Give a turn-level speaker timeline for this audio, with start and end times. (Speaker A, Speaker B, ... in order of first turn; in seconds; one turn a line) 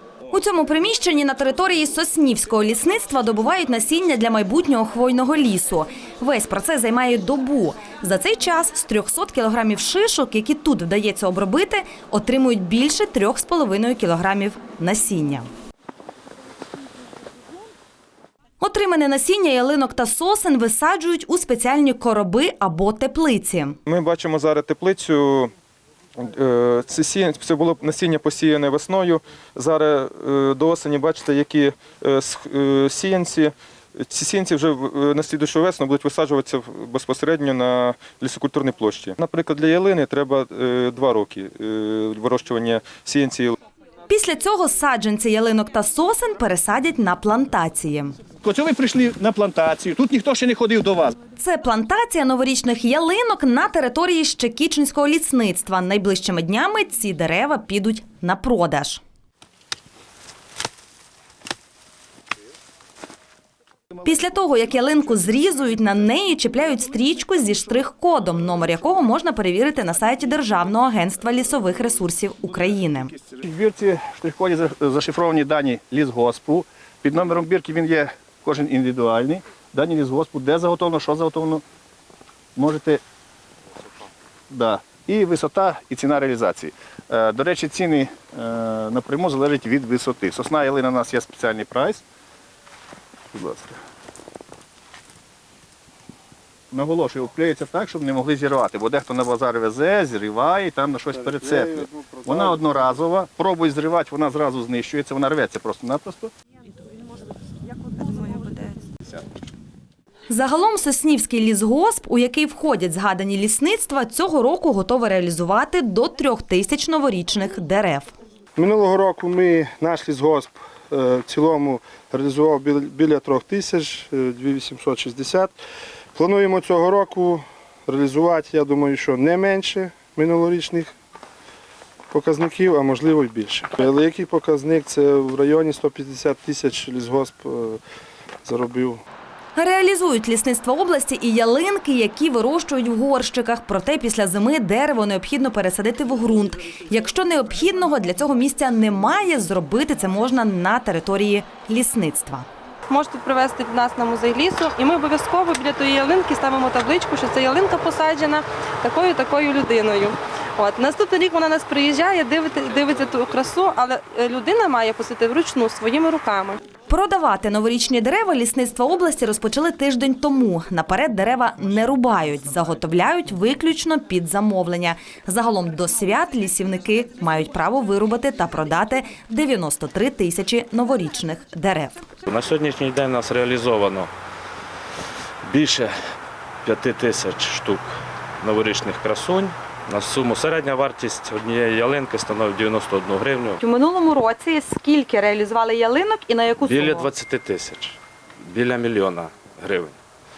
Speaker A: 0.3-15.5
Speaker A: 18.6-23.8
Speaker B: 23.9-25.5
Speaker B: 26.2-43.5
Speaker A: 44.1-48.1
Speaker C: 48.4-51.2
Speaker A: 51.4-59.0
Speaker A: 64.0-73.1
Speaker C: 73.2-81.6
Speaker C: 82.5-83.0
Speaker C: 84.5-92.0
Speaker C: 93.3-93.8
Speaker C: 96.7-106.3
Speaker D: 101.1-103.0
Speaker E: 107.9-108.8
Speaker A: 110.3-118.1
Speaker D: 118.5-125.5
Speaker D: 126.1-130.9
Speaker D: 132.1-137.8
Speaker D: 138.4-139.0
Speaker A: 139.5-152.4
Speaker E: 152.9-166.6
Speaker A: 166.9-182.0
Speaker F: 182.2-184.1
Speaker F: 185.4-185.9
Speaker F: 186.6-193.6
Speaker A: 193.6-197.1
Speaker F: 196.6-199.9